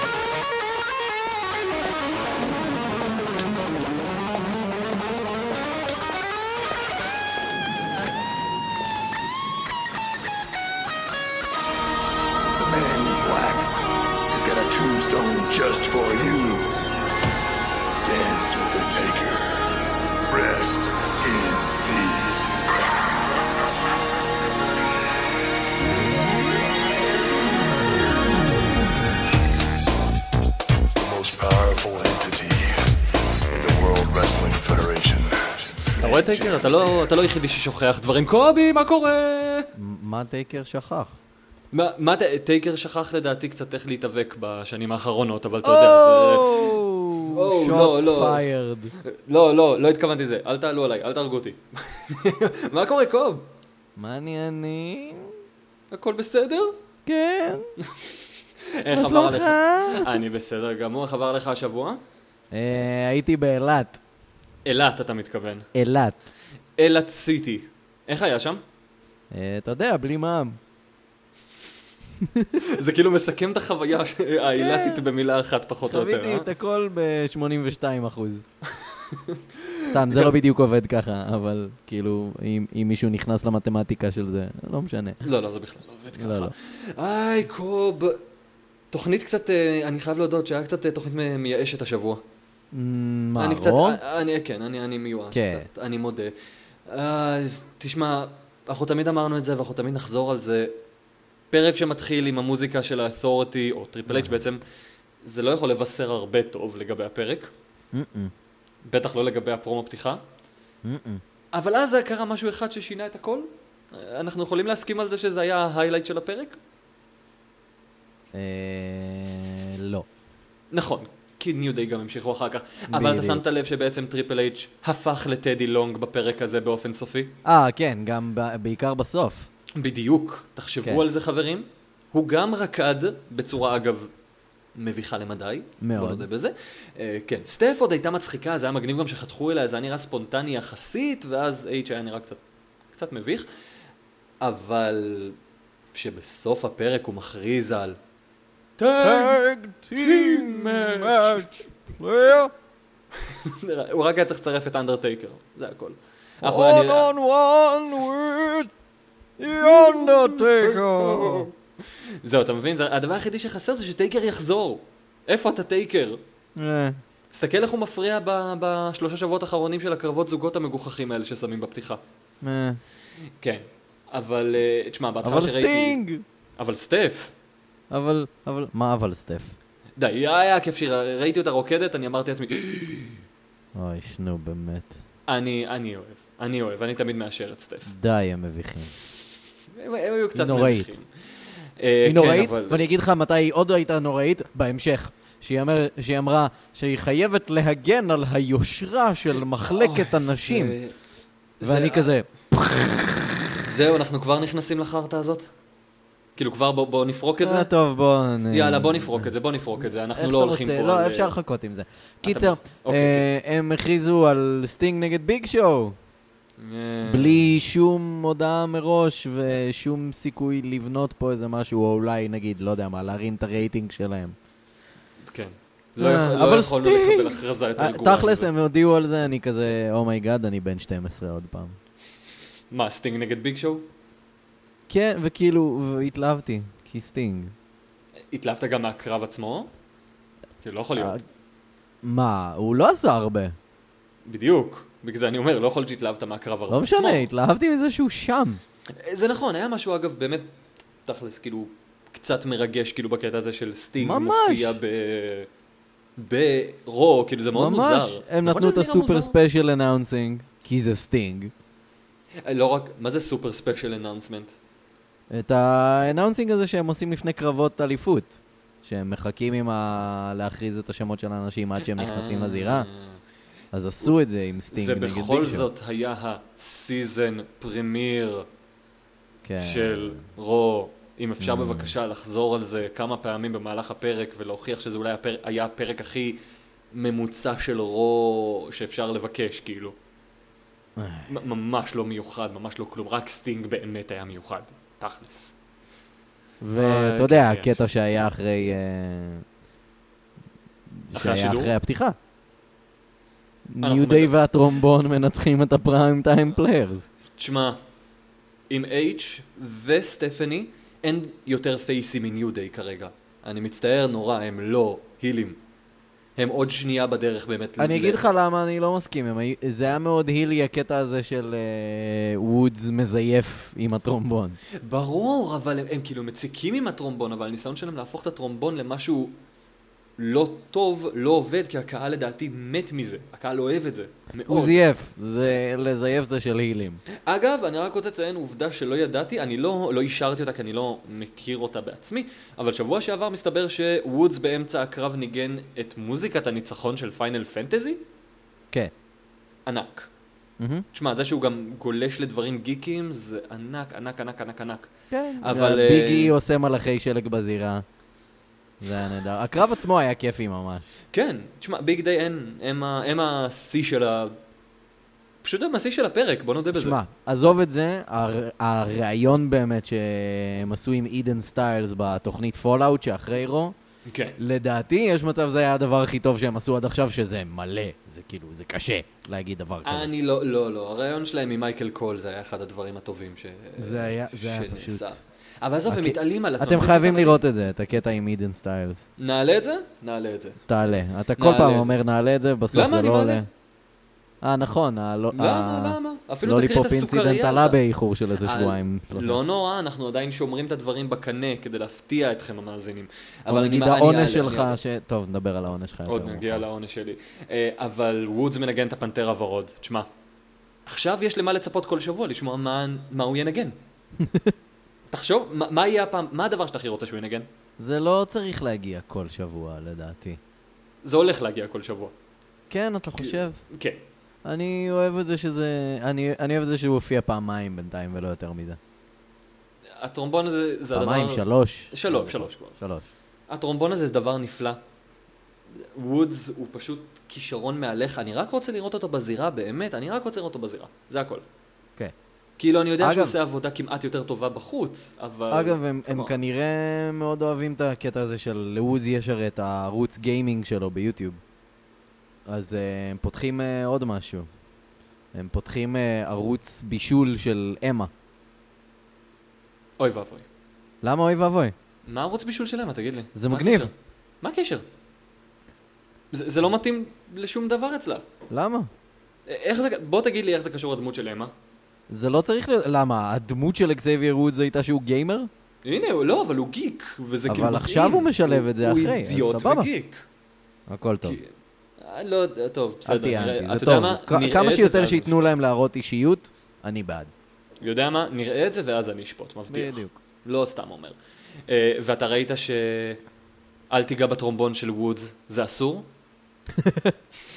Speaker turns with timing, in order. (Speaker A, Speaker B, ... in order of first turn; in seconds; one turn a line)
Speaker A: 12.6-13.7
Speaker A: 14.3-16.7
Speaker A: 18.0-19.7
Speaker A: 20.3-22.7
Speaker A: 30.9-32.8
Speaker A: 33.5-37.0
Speaker B: 36.0-39.7
Speaker C: 39.8-41.2
Speaker B: 41.7-48.4
Speaker C: 45.6-49.0
Speaker B: 49.0-53.5
Speaker C: 54.0-55.3
Speaker B: 55.9-56.7
Speaker C: 57.0-57.7
Speaker B: 57.8-58.2
Speaker B: 58.7-62.0
Speaker C: 58.9-60.2
Speaker C: 62.5-64.0
Speaker B: 64.6-65.7
Speaker C: 65.7-66.2
Speaker B: 66.8-68.6
Speaker C: 69.3-70.6
Speaker C: 72.2-72.5
Speaker B: 72.6-76.5
Speaker C: 74.5-75.1
Speaker C: 75.9-78.4
Speaker B: 78.8-80.3
Speaker C: 79.9-85.2
Speaker B: 85.2-88.2
Speaker C: 86.2-86.5
Speaker B: 88.9-92.2
Speaker C: 92.7-94.0
Speaker B: 93.4-96.3
Speaker C: 95.3-95.6
Speaker B: 96.8-100.7
Speaker B: 101.5-104.6
Speaker C: 104.1-104.3
Speaker B: 105.2-107.5
Speaker C: 107.9-108.3
Speaker B: 108.9-110.2
Speaker C: 110.8-111.2
Speaker B: 111.5-116.6
Speaker C: 118.3-120.0
Speaker B: 120.7-127.3
Speaker C: 122.9-123.4
Speaker C: 127.4-129.5
Speaker B: 129.8-134.1
Speaker B: 134.8-142.4
Speaker C: 135.8-136.3
Speaker B: 142.9-143.5
Speaker B: 144.4-145.3
Speaker B: 145.9-148.0
Speaker B: 148.8-149.4
Speaker C: 149.0-152.5
Speaker B: 149.9-151.5
Speaker B: 153.2-157.1
Speaker C: 156.4-158.7
Speaker C: 159.4-161.5
Speaker B: 159.5-161.5
Speaker B: 162.2-166.2
Speaker C: 166.6-167.0
Speaker B: 167.3-172.0
Speaker C: 172.4-172.8
Speaker B: 173.4-176.0
Speaker C: 175.2-176.2
Speaker B: 176.6-177.3
Speaker C: 177.9-179.6
Speaker B: 180.0-183.2
Speaker C: 183.7-184.9
Speaker B: 185.3-187.9
Speaker C: 187.9-188.9
Speaker B: 189.8-192.8
Speaker C: 190.3-190.9
Speaker C: 192.0-200.8
Speaker B: 199.6-200.9
Speaker B: 201.6-202.1
Speaker C: 201.6-203.2
Speaker B: 203.6-205.4
Speaker B: 206.3-207.7
Speaker C: 207.4-209.3
Speaker B: 208.5-211.3
Speaker C: 210.1-215.9
Speaker B: 212.2-213.2
Speaker B: 216.6-217.5
Speaker C: 217.0-224.3
Speaker B: 225.3-228.5
Speaker C: 226.0-231.8
Speaker B: 232.7-233.8
Speaker C: 234.9-237.5
Speaker B: 238.3-239.7
Speaker B: 240.6-241.2
Speaker C: 240.9-241.2
Speaker C: 242.0-243.5
Speaker B: 244.2-247.3
Speaker C: 246.7-248.6
Speaker B: 249.0-250.5
Speaker B: 251.0-255.5
Speaker C: 254.0-254.8
Speaker B: 256.2-259.3
Speaker C: 257.5-261.5
Speaker B: 262.4-264.5
Speaker C: 265.3-272.9
Speaker B: 271.9-273.2
Speaker C: 273.7-275.7
Speaker B: 274.7-278.5
Speaker C: 279.4-280.2
Speaker B: 279.6-286.4
Speaker C: 281.4-281.9
Speaker B: 286.9-289.9
Speaker C: 291.0-291.3
Speaker B: 291.3-295.5
Speaker C: 296.6-299.4
Speaker B: 296.8-297.8
Speaker C: 300.9-302.2
Speaker B: 301.1-301.8
Speaker C: 303.7-307.1
Speaker B: 303.8-304.3
Speaker B: 307.4-307.8
Speaker B: 308.7-315.6
Speaker B: 316.4-318.2
Speaker C: 317.8-324.6
Speaker B: 324.8-329.3
Speaker B: 330.2-334.8
Speaker C: 334.5-337.0
Speaker B: 337.1-348.0
Speaker B: 349.6-350.1
Speaker C: 350.6-350.9
Speaker B: 350.9-356.3
Speaker C: 355.1-357.8
Speaker C: 358.8-360.9
Speaker B: 361.1-364.4
Speaker B: 365.4-367.0
Speaker C: 366.7-373.7
Speaker B: 374.1-374.4
Speaker C: 374.4-380.1
Speaker B: 379.8-387.4
Speaker C: 383.8-385.2
Speaker C: 385.9-389.0
Speaker B: 389.2-390.6
Speaker C: 390.7-393.5
Speaker B: 391.4-391.9
Speaker B: 392.7-393.4
Speaker C: 394.4-399.4
Speaker B: 395.3-397.8
Speaker B: 398.4-404.8
Speaker C: 403.5-406.6
Speaker B: 406.1-410.1
Speaker B: 410.9-413.8
Speaker C: 414.2-414.5
Speaker B: 415.1-417.5
Speaker C: 417.8-420.4
Speaker B: 421.0-422.1
Speaker C: 422.7-423.6
Speaker B: 423.2-424.0
Speaker C: 424.4-428.8
Speaker B: 430.0-432.8
Speaker C: 430.9-433.1
Speaker B: 433.5-434.8
Speaker B: 435.8-441.4
Speaker B: 442.6-446.3
Speaker C: 443.0-443.4
Speaker C: 445.5-451.4
Speaker C: 452.5-454.5
Speaker C: 455.3-458.1
Speaker B: 460.0-460.4
Speaker C: 461.0-461.7
Speaker B: 462.1-464.8
Speaker C: 463.3-463.9
Speaker B: 466.3-468.2
Speaker C: 468.5-468.9
Speaker B: 469.5-471.5
Speaker C: 472.1-475.5
Speaker B: 475.8-480.3
Speaker C: 477.5-479.9
Speaker C: 480.9-481.4
Speaker B: 481.2-485.3
Speaker C: 483.0-487.3
Speaker B: 487.8-493.2
Speaker C: 489.7-490.2
Speaker B: 493.9-496.1
Speaker C: 496.8-497.1